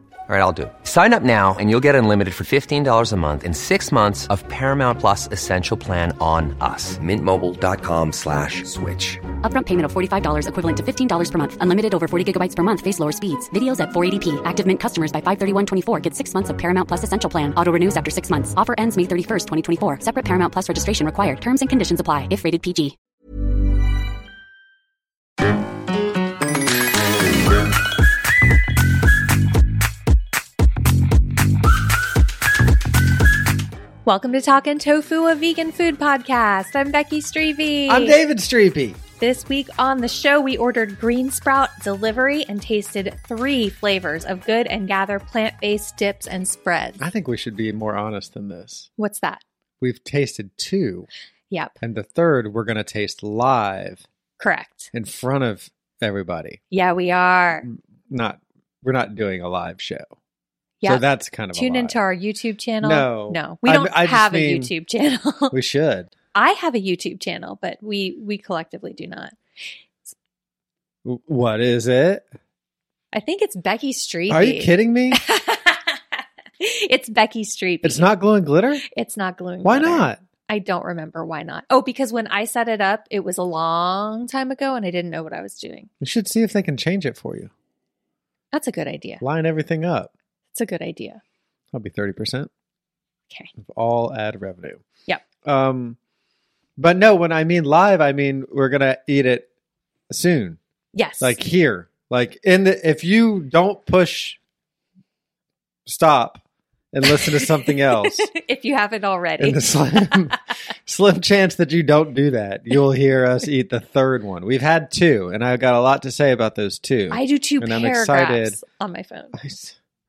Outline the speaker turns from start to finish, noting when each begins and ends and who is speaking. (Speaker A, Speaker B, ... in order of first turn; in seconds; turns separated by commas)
Speaker A: 0.3-9.2, Speaker B: 9.4-22.9, Speaker C: 34.0-38.2, Speaker D: 37.9-39.0, Speaker C: 39.2-47.0, Speaker D: 47.0-48.9, Speaker C: 49.0-49.4, Speaker D: 49.8-51.1, Speaker D: 51.8-54.1, Speaker C: 54.4-54.9, Speaker D: 54.9-56.6, Speaker C: 56.7-57.7, Speaker D: 57.6-60.1, Speaker C: 60.8-65.5, Speaker D: 60.8-62.0, Speaker D: 62.8-64.7, Speaker D: 65.5-66.1, Speaker C: 66.3-69.4, Speaker D: 71.0-72.3, Speaker C: 73.1-78.1, Speaker D: 74.3-75.2, Speaker D: 77.8-78.8, Speaker C: 78.8-85.9, Speaker D: 79.6-80.2, Speaker D: 86.0-87.5, Speaker C: 88.5-89.2, Speaker D: 89.2-90.1, Speaker C: 90.5-91.2, Speaker D: 91.7-92.5, Speaker D: 93.6-94.8, Speaker D: 95.4-96.0, Speaker D: 96.8-99.5, Speaker D: 100.1-100.6, Speaker C: 100.9-101.4, Speaker D: 101.2-104.4, Speaker D: 105.9-108.3, Speaker C: 107.0-110.3, Speaker D: 109.4-118.6, Speaker C: 117.1-119.4, Speaker D: 119.3-119.8